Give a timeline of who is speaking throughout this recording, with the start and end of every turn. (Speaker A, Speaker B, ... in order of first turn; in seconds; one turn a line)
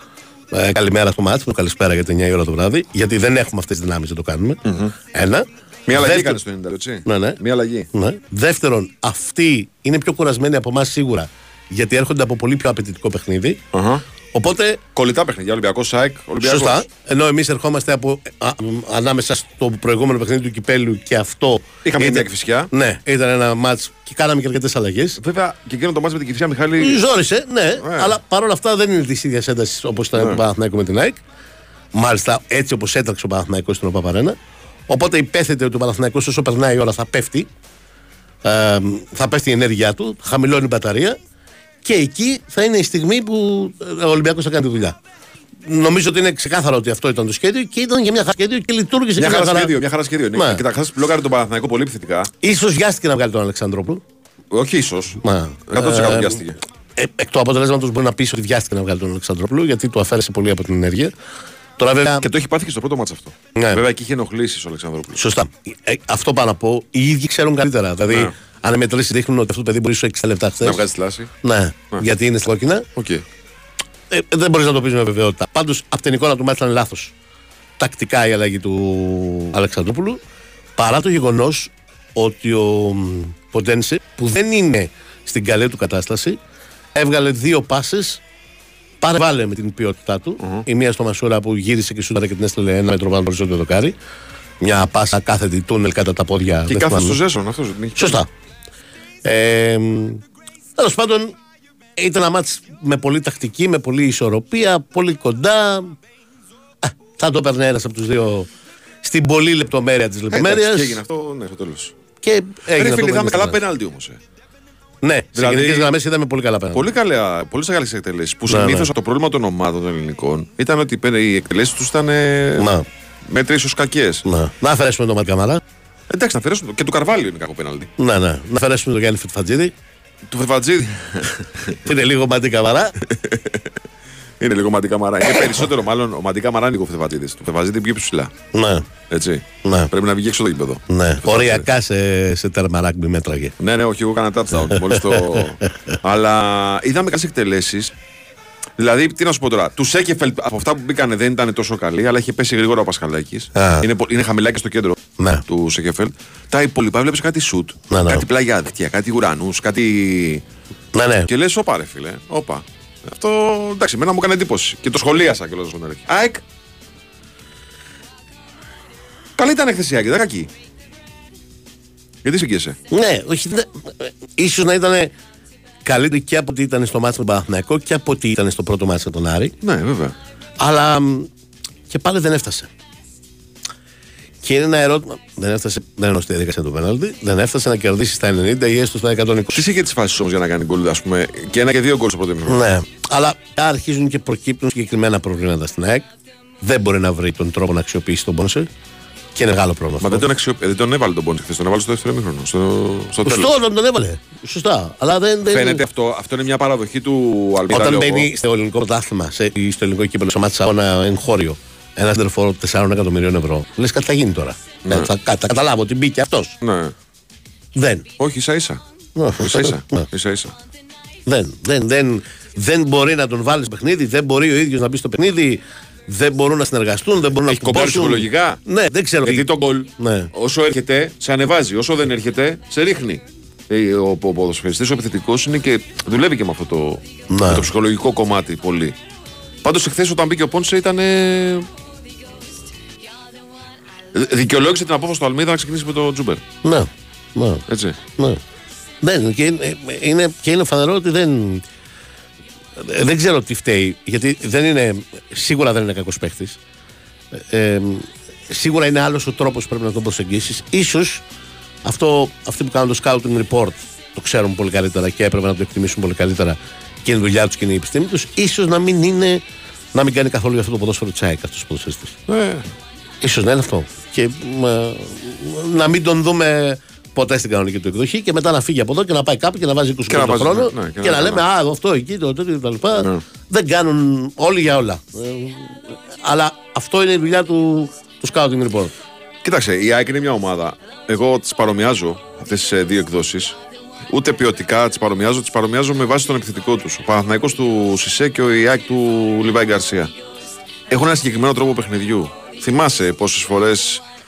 Speaker A: 0.5-6.4
Speaker B: 4.6-4.9
Speaker B: 5.9-7.9
Speaker A: 7.0-7.4
Speaker A: 7.9-13.6
Speaker B: 13.7-14.0
Speaker A: 14.3-14.8
Speaker B: 14.9-16.8
Speaker A: 16.4-25.2
Speaker B: 21.8-22.7
Speaker B: 25.2-27.0
Speaker A: 26.8-31.2
Speaker B: 27.8-28.1
Speaker B: 30.1-30.4
Speaker A: 31.9-34.4
Speaker A: 34.9-37.5
Speaker A: 38.4-41.2
Speaker A: 41.8-45.0
Speaker A: 45.6-49.8
Speaker B: 49.1-52.3
Speaker A: 50.3-50.6
Speaker A: 52.4-54.0
Speaker B: 54.5-56.6
Speaker A: 55.2-56.4
Speaker A: 57.0-61.1
Speaker A: 61.8-62.3
Speaker B: 62.2-65.2
Speaker A: 63.5-63.8
Speaker A: 65.1-70.8
Speaker B: 70.6-71.3
Speaker A: 71.4-72.8
Speaker B: 73.0-73.2
Speaker A: 74.1-77.1
Speaker A: 77.8-80.2
Speaker A: 80.8-86.4
Speaker A: 86.9-88.2
Speaker A: 89.0-93.9
Speaker B: 90.4-90.7
Speaker A: 94.6-97.2
Speaker B: 96.7-98.2
Speaker A: 98.0-98.3
Speaker A: 99.2-100.2
Speaker A: 100.8-101.3
Speaker A: 102.0-106.0
Speaker A: 106.8-108.5
Speaker A: 109.0-111.0
Speaker B: 110.3-112.0
Speaker A: 112.2-113.6
Speaker B: 112.7-114.2
Speaker A: 115.0-116.9
Speaker B: 115.3-115.9
Speaker B: 116.7-122.7
Speaker A: 118.5-118.9
Speaker A: 122.6-122.8
Speaker B: 123.2-124.2
Speaker A: 124.2-125.6
Speaker B: 126.1-127.9
Speaker A: 128.0-129.7
Speaker B: 130.2-131.8
Speaker A: 131.7-132.9
Speaker B: 133.0-133.8
Speaker B: 134.4-138.3
Speaker A: 138.5-138.8
Speaker B: 139.1-141.7
Speaker A: 139.6-139.9
Speaker A: 140.9-143.5
Speaker B: 143.6-147.9
Speaker A: 144.7-145.9
Speaker B: 148.8-160.4
Speaker A: 153.5-153.8
Speaker A: 155.2-155.4
Speaker A: 157.9-158.2
Speaker A: 160.9-161.3
Speaker B: 161.3-166.4
Speaker B: 169.4-170.5
Speaker B: 172.2-172.8
Speaker A: 172.9-175.1
Speaker A: 175.8-179.5
Speaker B: 179.6-180.1
Speaker A: 180.6-181.3
Speaker A: 181.9-182.7
Speaker A: 184.4-189.6
Speaker B: 189.5-192.6
Speaker A: 192.5-196.1
Speaker A: 196.6-198.7
Speaker A: 199.3-200.2
Speaker B: 200.0-203.5
Speaker A: 203.2-205.8
Speaker B: 205.5-208.3
Speaker A: 207.7-216.6
Speaker B: 214.8-215.1
Speaker B: 216.6-216.9
Speaker A: 217.7-218.0
Speaker B: 218.2-218.8
Speaker A: 219.2-220.1
Speaker B: 219.4-220.6
Speaker A: 221.2-230.3
Speaker B: 227.4-228.6
Speaker B: 229.2-238.9
Speaker A: 237.3-237.7
Speaker B: 239.6-241.7
Speaker B: 244.1-246.4
Speaker A: 246.6-247.6
Speaker B: 247.7-248.0
Speaker A: 249.0-251.6
Speaker A: 252.8-256.6
Speaker A: 257.3-261.2
Speaker A: 261.8-269.4
Speaker A: 269.9-272.2
Speaker B: 272.3-272.7
Speaker A: 273.2-288.9
Speaker B: 280.1-281.4
Speaker B: 283.0-283.2
Speaker B: 289.4-293.6
Speaker B: 294.1-300.1
Speaker B: 300.9-304.0